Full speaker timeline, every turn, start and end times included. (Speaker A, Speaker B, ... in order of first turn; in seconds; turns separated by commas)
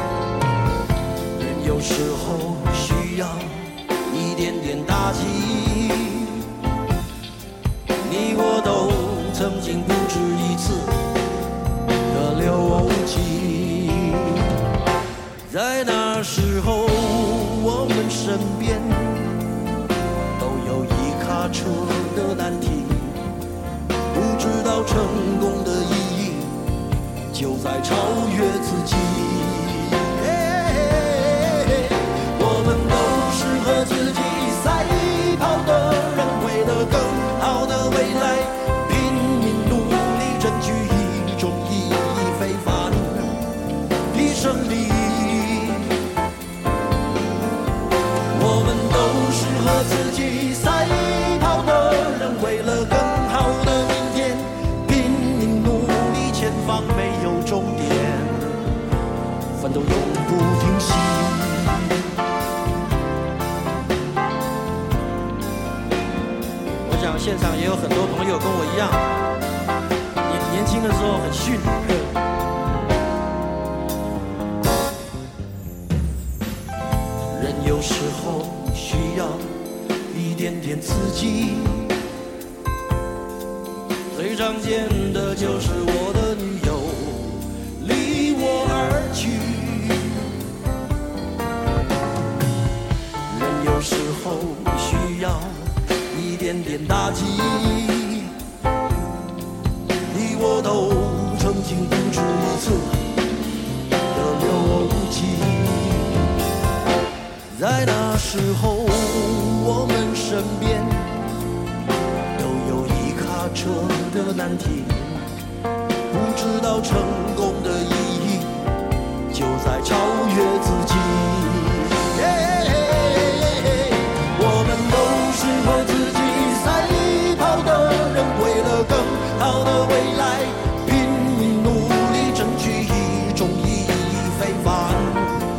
Speaker A: 1.3-6.5, Speaker A: 8.0-11.1, Speaker A: 12.1-14.5, Speaker A: 15.5-19.4, Speaker A: 20.4-23.2, Speaker A: 24.1-26.6, Speaker A: 27.3-43.4, Speaker A: 44.1-46.0, Speaker A: 48.3-58.7, Speaker A: 59.6-62.0, Speaker A: 66.8-69.2, Speaker A: 70.2-72.1, Speaker A: 77.3-79.6, Speaker A: 80.1-82.0, Speaker A: 84.1-90.4, Speaker A: 93.3-98.3, Speaker A: 100.1-103.0, Speaker A: 104.1-106.3, Speaker A: 107.5-111.2, Speaker A: 112.3-115.3, Speaker A: 116.1-118.6, Speaker A: 119.3-135.5